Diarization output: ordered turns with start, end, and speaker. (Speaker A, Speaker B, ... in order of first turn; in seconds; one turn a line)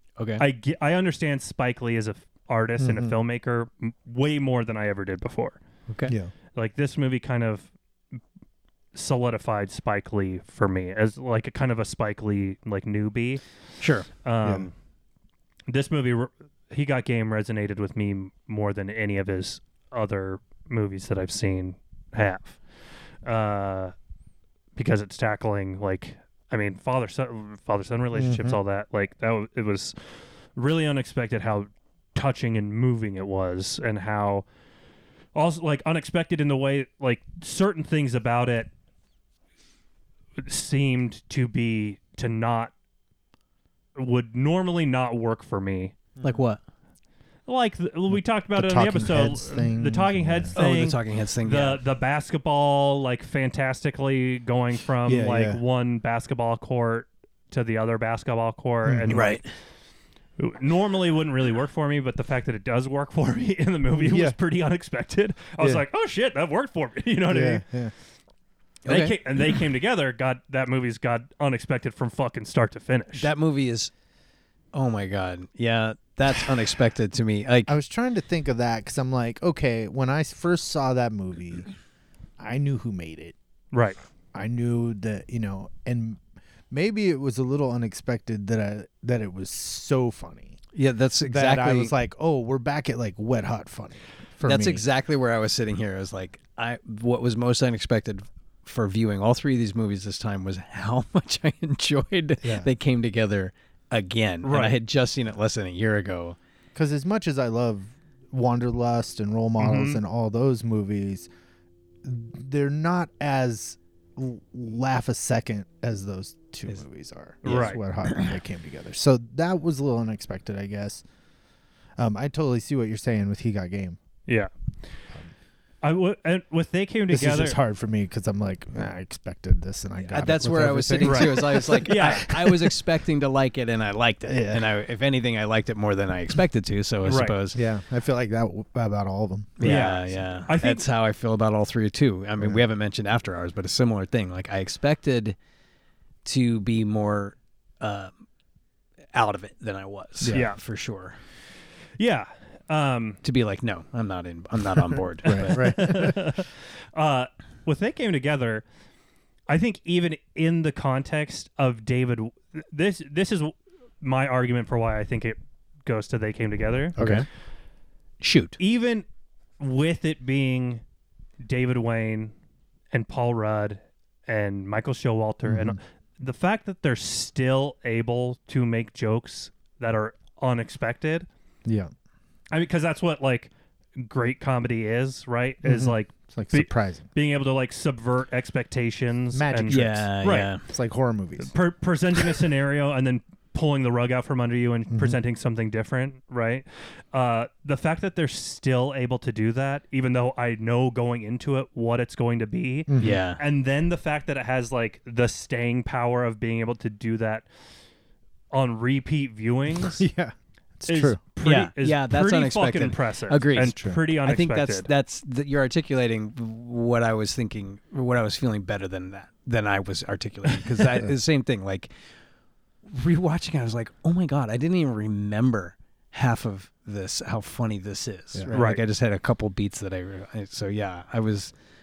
Speaker A: 0.2-0.4
Speaker B: 0.4-5.6
Speaker C: 2.8-3.1
Speaker B: 6.5-7.7
Speaker B: 8.9-13.4
Speaker A: 13.8-14.1
Speaker B: 14.2-14.7
Speaker C: 14.4-14.7
Speaker B: 15.7-22.6
Speaker B: 23.2-23.9
Speaker B: 24.8-30.0
Speaker C: 28.1-28.6
Speaker B: 30.6-34.5
Speaker B: 35.4-38.7
Speaker B: 40.4-42.7
Speaker B: 44.0-45.9
Speaker A: 46.2-46.6
Speaker B: 47.5-59.5
Speaker C: 48.1-50.5
Speaker A: 50.5-51.8
Speaker C: 55.1-55.6
Speaker C: 58.9-59.2
Speaker A: 59.1-59.5
Speaker B: 60.4-67.7
Speaker C: 63.9-64.4
Speaker C: 67.3-67.9
Speaker A: 68.8-69.2
Speaker B: 68.9-73.3
Speaker A: 73.2-73.9
Speaker A: 74.7-77.8
Speaker C: 77.7-81.7
Speaker C: 82.4-83.3
Speaker B: 83.7-84.0
Speaker C: 84.3-90.6
Speaker A: 90.7-91.9
Speaker C: 91.3-94.8
Speaker A: 94.4-106.4
Speaker C: 102.4-102.7
Speaker B: 104.4-104.8
Speaker C: 106.8-111.3
Speaker B: 109.6-110.0
Speaker C: 112.0-121.0
Speaker B: 117.4-117.8
Speaker A: 117.5-117.7
Speaker C: 122.0-124.0
Speaker B: 124.3-124.5
Speaker B: 125.8-127.6
Speaker C: 127.1-132.7
Speaker A: 130.1-137.6
Speaker B: 131.0-132.3
Speaker C: 134.3-134.6
Speaker B: 137.1-137.3
Speaker C: 137.5-140.0
Speaker A: 139.6-145.4
Speaker B: 139.6-140.8
Speaker A: 146.2-148.1
Speaker A: 149.1-151.2
Speaker C: 150.2-150.5
Speaker B: 150.3-150.6
Speaker B: 152.0-153.2
Speaker A: 153.2-155.9
Speaker C: 155.2-156.2
Speaker B: 155.3-158.6
Speaker B: 159.5-167.0
Speaker C: 167.0-167.3
Speaker A: 167.0-167.3
Speaker A: 168.2-168.6
Speaker B: 168.6-169.1
Speaker B: 169.6-170.8
Speaker B: 171.4-172.3
Speaker B: 172.9-181.3
Speaker C: 175.4-175.8
Speaker C: 181.7-181.9
Speaker B: 182.5-190.5
Speaker C: 185.6-187.1
Speaker C: 189.3-190.1
Speaker A: 189.7-190.6
Speaker C: 190.6-191.5
Speaker B: 191.5-207.5
Speaker C: 194.9-195.2
Speaker C: 202.9-203.2
Speaker A: 203.0-203.4
Speaker B: 208.5-210.1
Speaker C: 209.8-211.2
Speaker B: 210.9-214.9
Speaker A: 211.4-221.9
Speaker C: 213.7-214.0
Speaker A: 222.9-231.5
Speaker C: 228.3-228.6
Speaker B: 228.5-228.8